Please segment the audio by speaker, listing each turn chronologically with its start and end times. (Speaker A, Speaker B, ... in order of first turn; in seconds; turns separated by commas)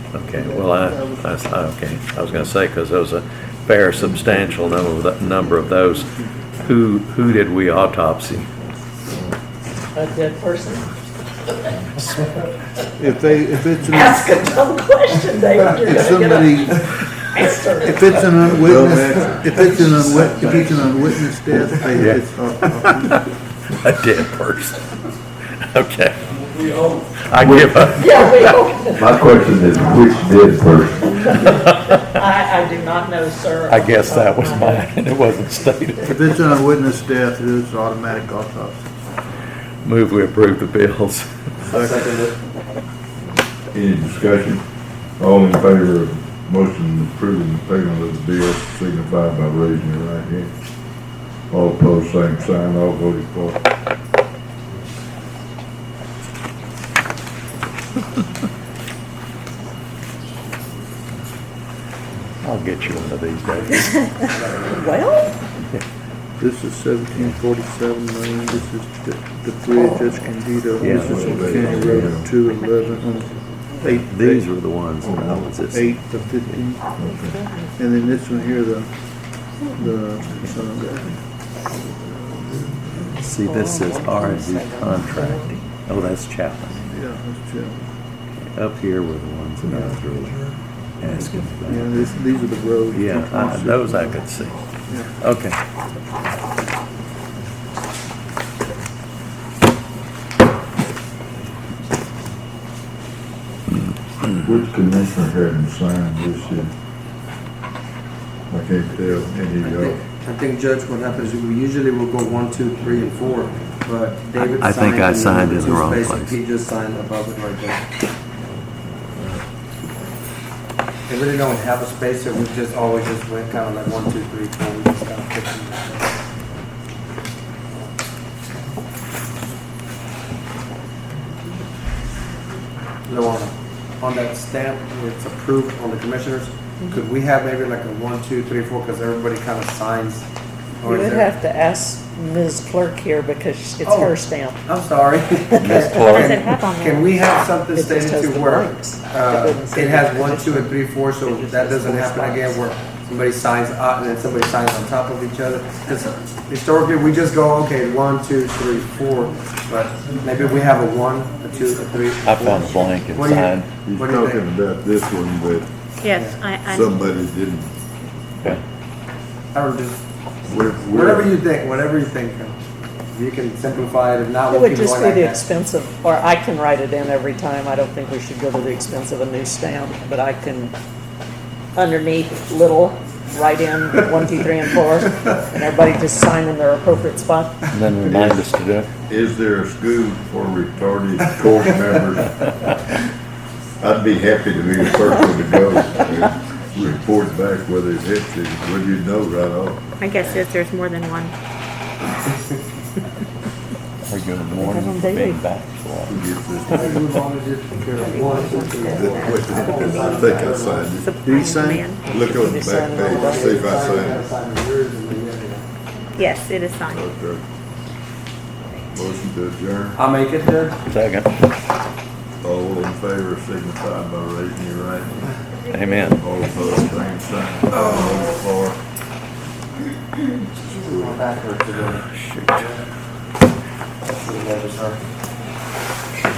Speaker A: 0.1-8.5, Speaker B: 0.3-1.7, Speaker C: 9.9-10.9, Speaker C: 11.8-12.5, Speaker B: 13.0-14.3, Speaker C: 13.9-18.2, Speaker B: 15.8-16.8, Speaker B: 17.8-23.2, Speaker D: 18.5-19.5, Speaker A: 21.9-22.2, Speaker A: 22.9-23.2, Speaker A: 23.7-24.9, Speaker A: 25.7-26.2, Speaker A: 26.9-28.2, Speaker D: 27.4-27.9, Speaker C: 27.9-30.0, Speaker D: 28.9-31.4, Speaker A: 31.4-32.0, Speaker C: 31.6-34.9, Speaker A: 33.7-36.1, Speaker B: 36.0-38.9, Speaker A: 39.8-41.3, Speaker B: 41.6-42.1, Speaker E: 41.7-42.3, Speaker D: 43.7-44.6, Speaker D: 45.2-50.5, Speaker D: 51.5-53.6, Speaker A: 62.4-64.2, Speaker E: 64.2-64.8, Speaker C: 64.7-65.3, Speaker B: 66.4-74.5, Speaker A: 70.8-71.3, Speaker D: 70.8-72.3, Speaker F: 72.4-73.0, Speaker A: 73.8-76.6, Speaker D: 75.0-75.5, Speaker B: 75.7-77.0, Speaker D: 77.0-77.4, Speaker F: 77.2-77.6, Speaker B: 77.7-78.9, Speaker B: 79.7-83.2, Speaker A: 83.2-86.8, Speaker B: 86.8-87.9, Speaker A: 88.4-92.0, Speaker B: 91.6-94.2, Speaker A: 92.9-94.7, Speaker A: 95.2-95.6, Speaker D: 104.4-106.7, Speaker D: 108.5-110.0, Speaker E: 109.6-117.8, Speaker A: 114.4-116.4, Speaker E: 121.1-126.2, Speaker E: 133.1-140.3, Speaker E: 140.8-141.3, Speaker C: 140.8-144.6, Speaker E: 143.8-164.4, Speaker C: 145.5-146.0, Speaker A: 145.6-146.4, Speaker F: 146.1-147.1, Speaker C: 147.7-152.6, Speaker A: 162.2-163.7, Speaker D: 163.8-165.7, Speaker F: 166.0-167.0, Speaker E: 166.1-166.4, Speaker D: 166.6-167.7, Speaker E: 169.5-170.0, Speaker D: 170.5-171.3, Speaker E: 170.9-172.6, Speaker E: 173.1-175.4, Speaker C: 174.5-180.7, Speaker C: 181.7-187.6, Speaker A: 187.7-188.9, Speaker D: 188.0-188.4, Speaker D: 189.1-192.4, Speaker D: 193.8-199.8, Speaker F: 200.0-201.3, Speaker A: 204.1-206.2, Speaker D: 206.1-207.0, Speaker A: 206.7-206.9, Speaker E: 206.7-210.9, Speaker F: 207.9-212.2, Speaker D: 208.8-211.2, Speaker B: 211.2-211.9, Speaker D: 212.0-214.2, Speaker C: 212.1-213.6, Speaker E: 212.9-215.7, Speaker F: 216.2-217.0, Speaker D: 216.9-217.4, Speaker D: 218.9-220.0, Speaker E: 219.9-220.8, Speaker A: 220.9-221.3, Speaker D: 222.4-225.3, Speaker A: 225.7-226.2, Speaker D: 226.1-228.8, Speaker E: 227.8-228.1, Speaker E: 230.6-232.0, Speaker A: 231.9-232.6, Speaker E: 234.0-235.0